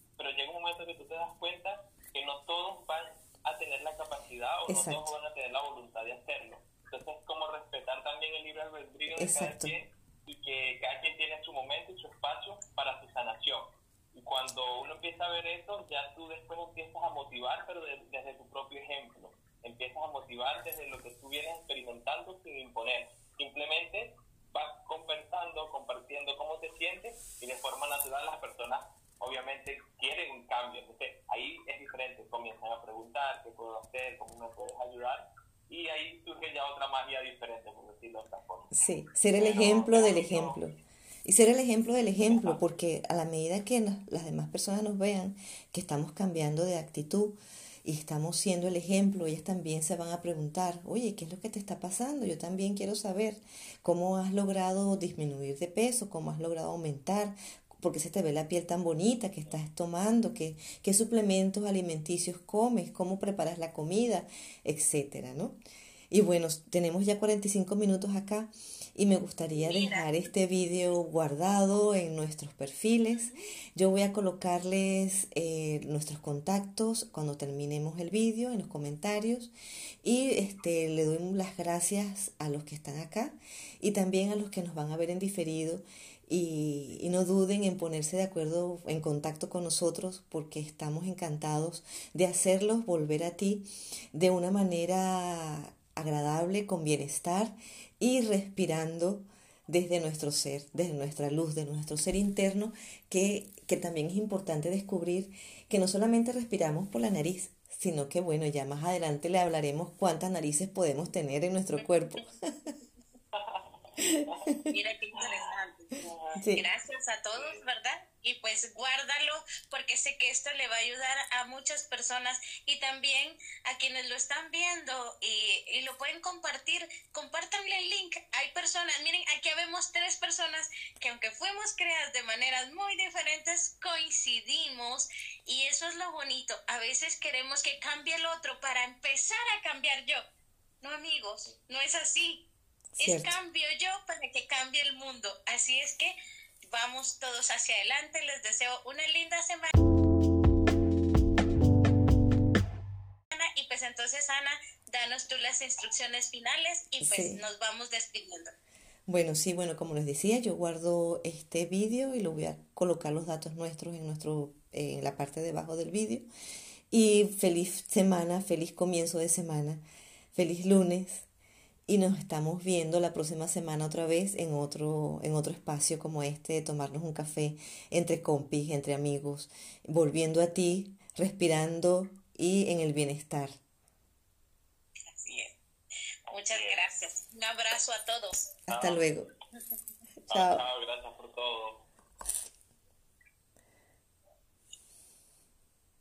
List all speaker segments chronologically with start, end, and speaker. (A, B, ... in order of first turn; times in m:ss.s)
0:00.2-0:38.7 A
0:04.7-0:05.1 B
0:09.1-0:09.7 B
0:38.7-1:05.6 B
0:39.3-0:40.6 A
0:42.3-0:42.6 A
1:06.1-1:19.5 B
1:09.6-1:10.1 C
1:20.0-1:52.7 B
1:53.3-1:53.6 A
1:54.0-1:54.7 B
1:54.7-2:20.2 C
1:56.0-1:56.4 A
1:56.4-1:56.6 B
1:57.3-1:57.6 A
2:20.8-2:22.4 C
2:23.0-2:23.3 B
2:23.0-2:26.2 C
2:26.7-2:29.7 C
2:33.3-2:38.5 C
2:37.0-2:37.4 B
2:39.1-2:46.2 B
2:46.9-2:49.8 B
2:50.3-2:51.3 B
2:51.9-3:03.6 B
3:05.1-3:05.5 C
3:06.3-3:08.5 C
3:06.4-3:06.8 A
3:08.7-3:09.3 B
3:08.7-3:09.1 A
3:10.3-3:11.8 A
3:10.3-3:10.6 B